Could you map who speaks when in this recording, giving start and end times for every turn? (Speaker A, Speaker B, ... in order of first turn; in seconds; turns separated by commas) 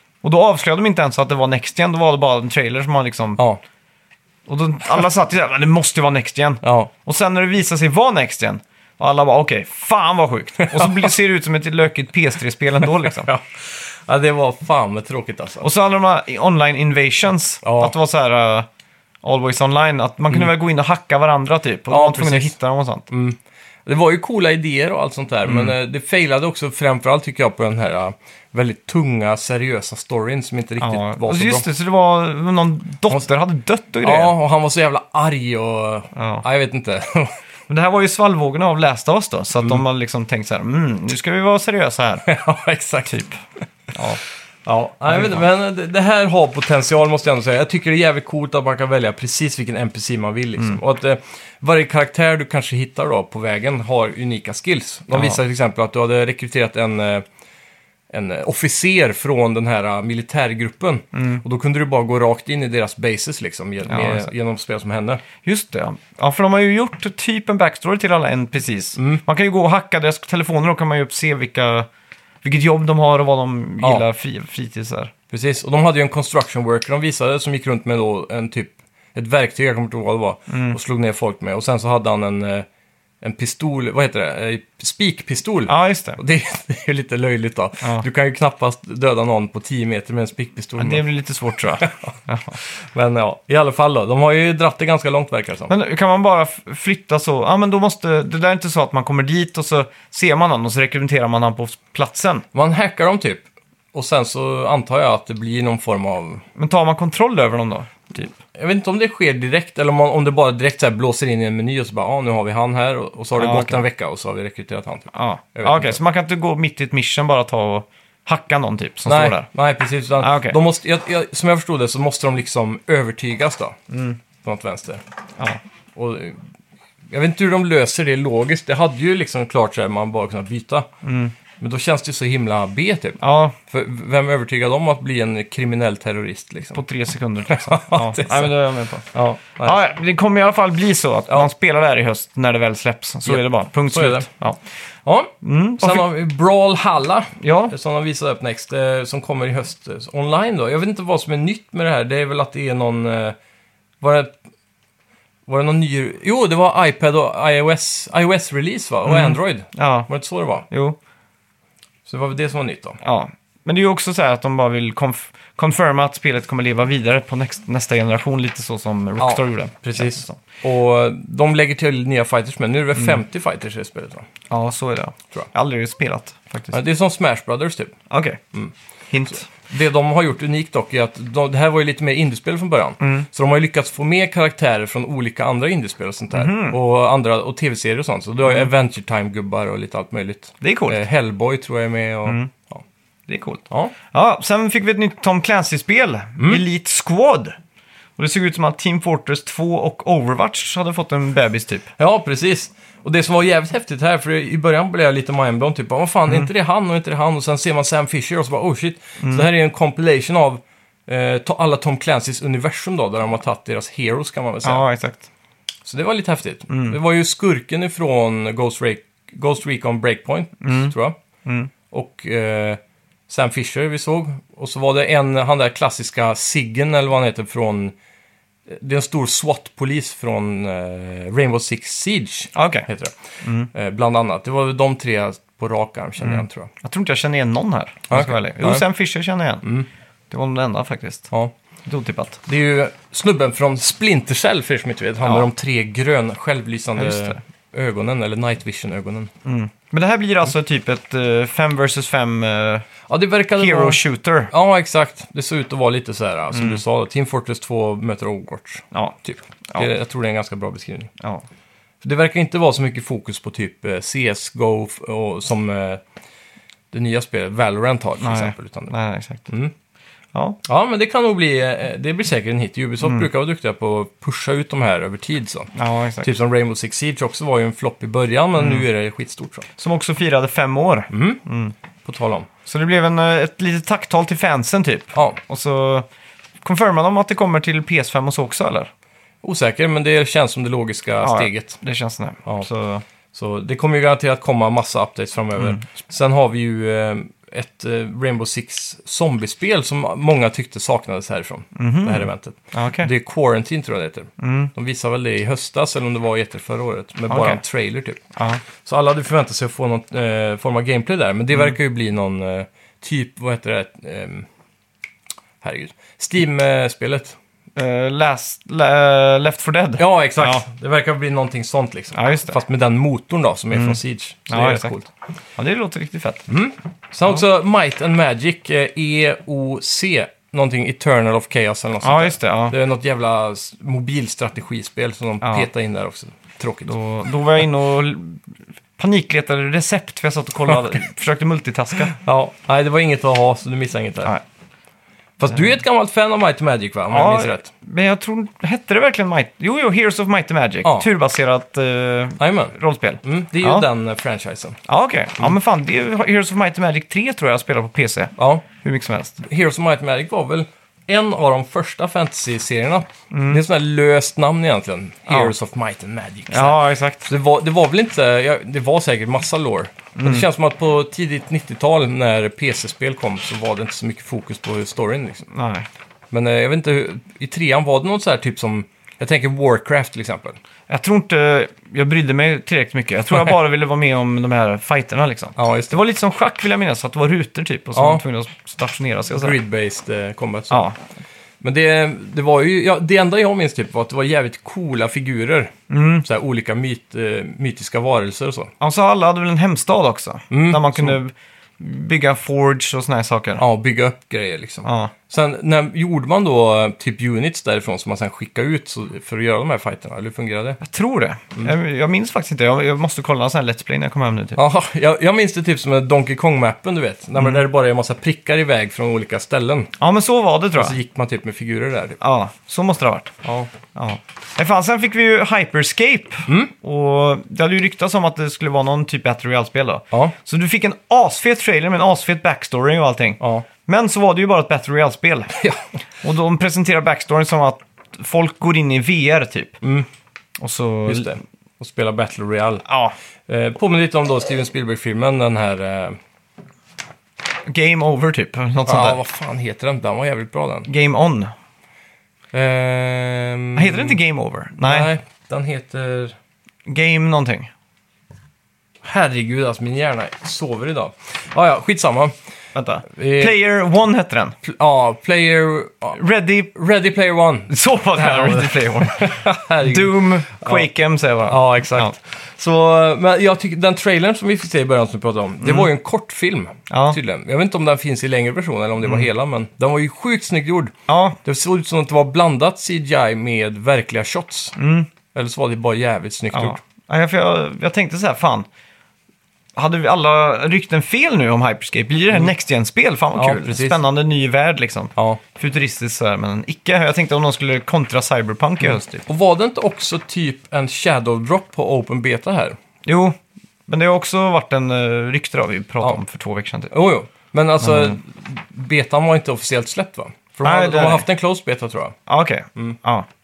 Speaker A: 0.2-3.4, Speaker A: 4.5-13.3, Speaker B: 6.6-6.9, Speaker B: 10.6-11.1, Speaker B: 12.8-15.7, Speaker A: 15.6-18.7, Speaker B: 17.6-17.9, Speaker A: 19.2-23.1, Speaker B: 21.9-22.5, Speaker B: 23.1-31.6, Speaker A: 25.5-25.7, Speaker A: 30.8-34.3, Speaker B: 34.0-37.3, Speaker A: 36.1-36.4, Speaker A: 37.7-42.2, Speaker B: 42.2-43.2, Speaker A: 43.1-43.4, Speaker A: 43.9-44.2, Speaker B: 44.6-57.2, Speaker A: 45.1-45.4, Speaker A: 55.1-55.4, Speaker B: 58.1-65.2, Speaker A: 61.1-61.4, Speaker A: 63.9-64.3, Speaker A: 65.4-71.9, Speaker B: 69.0-69.2, Speaker A: 72.4-75.1, Speaker B: 75.3-82.7, Speaker A: 80.5-80.8, Speaker B: 83.2-91.1, Speaker A: 85.7-86.2, Speaker A: 90.8-92.6, Speaker B: 91.7-95.7, Speaker A: 95.7-102.4, Speaker B: 102.5-106.4, Speaker A: 106.5-108.4, Speaker B: 108.5-116.0, Speaker A: 113.4-113.8, Speaker A: 115.1-119.5, Speaker B: 119.0-123.8, Speaker A: 120.2-120.6, Speaker A: 123.9-124.2, Speaker B: 124.4-125.0, Speaker B: 125.9-126.4, Speaker B: 127.1-130.9, Speaker A: 131.0-131.3, Speaker B: 131.6-136.8, Speaker A: 133.2-133.6, Speaker A: 136.7-139.1, Speaker B: 137.5-138.6, Speaker B: 139.1-139.8, Speaker A: 139.6-144.6, Speaker B: 143.2-144.3, Speaker B: 145.0-153.4, Speaker A: 145.4-146.1, Speaker A: 147.4-147.7, Speaker B: 154.0-154.4, Speaker B: 155.5-160.7, Speaker A: 159.0-160.1, Speaker A: 160.7-161.0, Speaker B: 162.1-163.0, Speaker A: 163.0-170.4, Speaker B: 169.2-174.3, Speaker A: 174.5-176.8, Speaker B: 176.7-177.9, Speaker A: 178.1-178.4, Speaker A: 179.1-179.5, Speaker B: 179.5-192.8, Speaker A: 183.0-183.3, Speaker A: 186.3-186.8, Speaker A: 190.6-191.0, Speaker A: 192.2-192.5, Speaker A: 193.3-197.6, Speaker B: 196.4-196.6, Speaker A: 198.2-201.9, Speaker B: 202.0-214.8, Speaker A: 209.2-209.5, Speaker A: 214.6-215.3, Speaker B: 215.8-221.2, Speaker A: 216.7-217.0, Speaker A: 220.6-220.9, Speaker A: 221.4-221.7, Speaker B: 221.9-227.9, Speaker B: 228.7-236.7, Speaker A: 232.5-232.9, Speaker A: 233.4-233.7, Speaker A: 236.2-239.7, Speaker B: 238.1-238.8, Speaker B: 239.6-239.9, Speaker A: 240.3-241.3, Speaker A: 241.9-242.4, Speaker B: 242.4-249.3, Speaker A: 246.9-247.4, Speaker A: 249.4-252.9, Speaker B: 253.1-261.1, Speaker A: 253.6-254.5, Speaker A: 256.5-256.8, Speaker B: 262.0-266.0, Speaker B: 266.9-268.9, Speaker A: 268.2-269.5, Speaker B: 269.5-269.7, Speaker B: 270.6-275.7, Speaker A: 273.0-273.3, Speaker A: 275.7-276.3, Speaker B: 276.2-279.7, Speaker A: 278.6-278.9, Speaker A: 279.8-281.7, Speaker B: 281.1-281.4, Speaker B: 282.0-282.5, Speaker A: 282.6-286.1, Speaker A: 286.6-288.9, Speaker B: 289.4-291.8, Speaker A: 291.2-293.0, Speaker B: 293.3-308.2, Speaker A: 301.7-303.1, Speaker A: 304.4-304.7, Speaker A: 307.3-307.6, Speaker A: 308.3-308.6, Speaker B: 308.8-314.5, Speaker B: 315.6-317.4, Speaker A: 317.8-320.6, Speaker B: 320.0-325.1, Speaker A: 322.1-322.6, Speaker A: 323.7-324.9, Speaker A: 325.6-326.5, Speaker B: 326.5-336.9, Speaker A: 332.0-332.8, Speaker A: 335.4-335.7, Speaker A: 336.9-338.4, Speaker A: 339.0-342.1, Speaker B: 342.1-344.3, Speaker B: 345.4-347.7, Speaker A: 347.1-353.9, Speaker B: 352.4-354.8, Speaker A: 354.9-359.4, Speaker B: 358.4-358.6, Speaker B: 359.4-375.5, Speaker A: 363.3-363.6, Speaker A: 365.3-365.5, Speaker A: 366.5-367.3, Speaker A: 370.1-370.4, Speaker A: 375.5-375.9, Speaker B: 376.3-380.6, Speaker A: 380.9-389.6, Speaker B: 385.6-386.0, Speaker B: 387.9-388.2, Speaker B: 389.3-390.9, Speaker A: 390.7-391.0, Speaker B: 391.6-395.7, Speaker A: 395.9-396.3, Speaker B: 396.2-398.7, Speaker A: 398.8-403.6, Speaker B: 400.5-401.2, Speaker B: 403.6-410.8, Speaker A: 404.8-405.1, Speaker A: 410.8-414.6, Speaker B: 414.6-419.9, Speaker A: 420.0-421.0, Speaker B: 420.7-422.2, Speaker A: 422.2-423.3, Speaker B: 423.4-423.7, Speaker A: 423.9-435.6, Speaker B: 426.5-426.7, Speaker B: 433.4-433.7, Speaker B: 435.6-435.8, Speaker A: 436.2-439.8, Speaker B: 439.8-440.1, Speaker A: 440.6-441.4, Speaker B: 441.1-442.8, Speaker A: 442.8-443.1, Speaker B: 443.5-446.2, Speaker A: 447.6-449.2, Speaker B: 448.9-450.9, Speaker A: 450.9-451.5, Speaker B: 452.5-454.2, Speaker A: 453.7-455.1, Speaker B: 454.8-456.4, Speaker A: 456.9-457.7, Speaker B: 459.0-462.3, Speaker A: 462.7-464.6, Speaker B: 463.1-463.6, Speaker B: 464.6-466.2, Speaker A: 466.1-466.7, Speaker B: 466.7-470.9, Speaker A: 467.7-472.1, Speaker B: 471.5-480.9, Speaker A: 475.6-475.9, Speaker A: 476.9-477.2, Speaker A: 481.1-481.4, Speaker B: 481.4-484.8, Speaker A: 484.8-485.1, Speaker B: 485.3-486.8, Speaker A: 486.5-488.7, Speaker A: 489.8-499.3, Speaker B: 493.3-494.1, Speaker B: 495.1-495.4, Speaker B: 498.8-502.8, Speaker A: 503.1-506.9, Speaker B: 506.9-512.1, Speaker A: 507.8-508.2, Speaker A: 510.6-511.3, Speaker A: 512.3-513.3